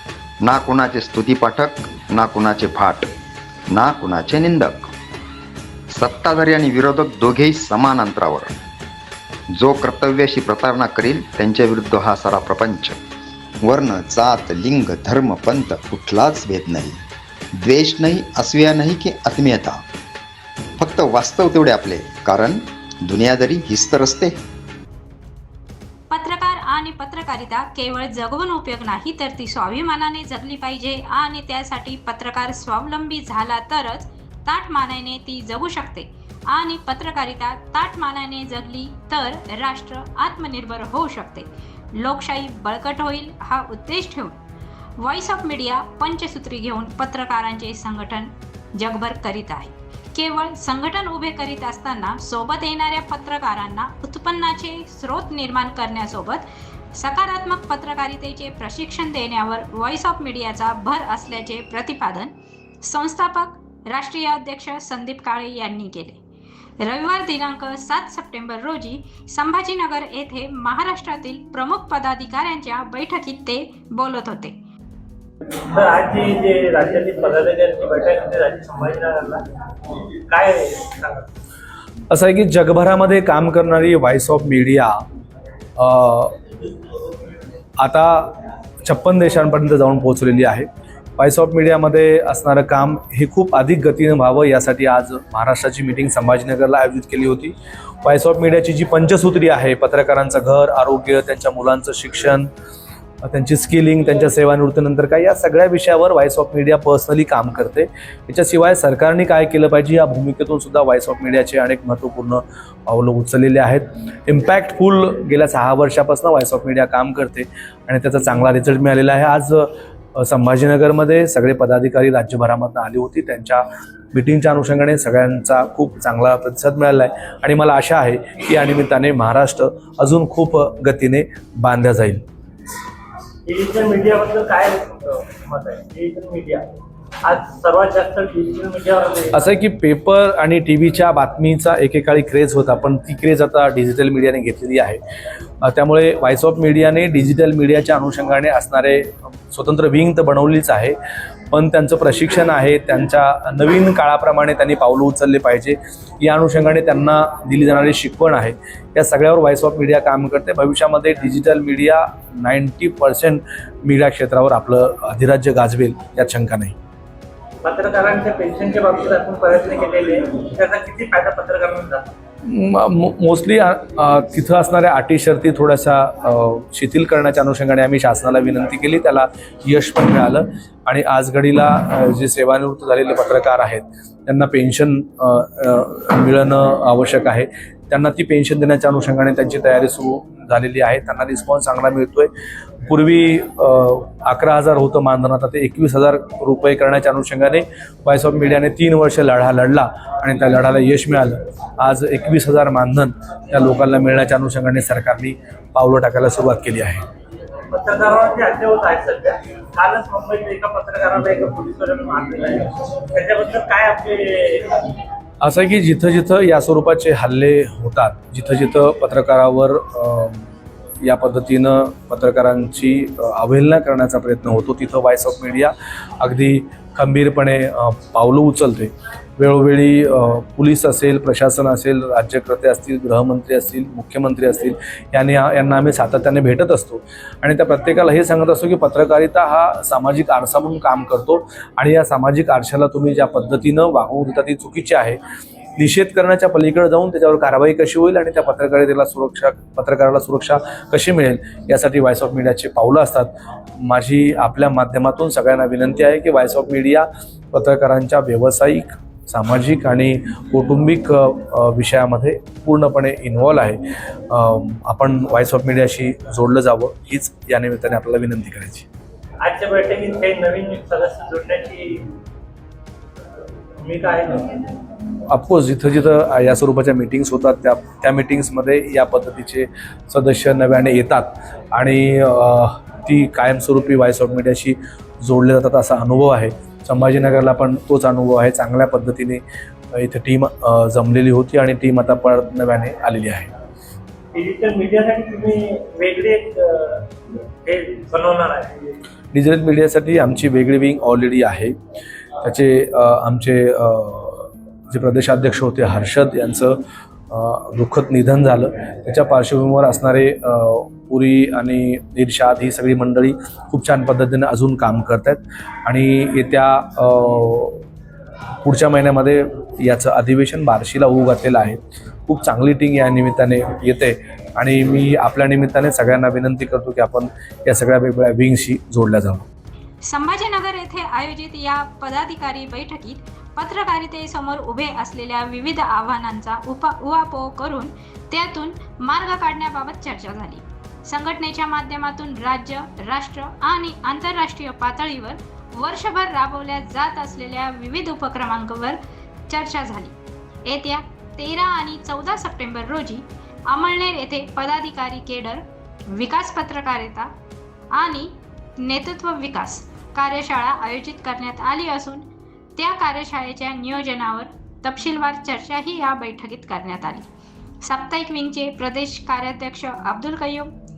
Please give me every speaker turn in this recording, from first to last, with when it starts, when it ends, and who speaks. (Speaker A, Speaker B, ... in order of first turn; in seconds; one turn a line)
Speaker A: 0.4-3.1
Speaker A: 3.7-4.9
Speaker A: 5.9-8.5
Speaker A: 9.5-13.0
Speaker A: 13.6-17.0
Speaker A: 17.6-19.8
Speaker A: 20.8-24.4
Speaker B: 26.1-44.4
Speaker B: 45.0-66.2
Speaker B: 66.8-74.5
Speaker C: 75.7-79.4
Speaker C: 80.3-81.3
Speaker D: 82.1-85.0
Speaker D: 85.8-86.3
Speaker D: 87.8-90.7
Speaker D: 91.2-102.5
Speaker D: 103.2-132.2
Speaker C: 133.4-136.6
Speaker C: 137.2-139.4
Speaker D: 139.3-145.0
Speaker D: 145.6-150.9
Speaker D: 151.5-166.7
Speaker C: 167.6-172.1
Speaker D: 172.4-192.3
Speaker D: 192.8-207.0
Speaker C: 207.7-214.8
Speaker D: 215.4-220.4
Speaker D: 221.0-245.2
Speaker D: 245.8-268.9
Speaker C: 269.4-272.1
Speaker C: 273.8-274.7
Speaker D: 275.3-293.5
Speaker C: 294.3-298.8
Speaker D: 299.3-301.7
Speaker D: 302.4-306.8
Speaker D: 307.3-317.8
Speaker D: 318.6-329.4
Speaker B: 330.0-357.3
Speaker B: 357.9-362.2
Speaker B: 362.8-367.3
Speaker B: 367.8-370.7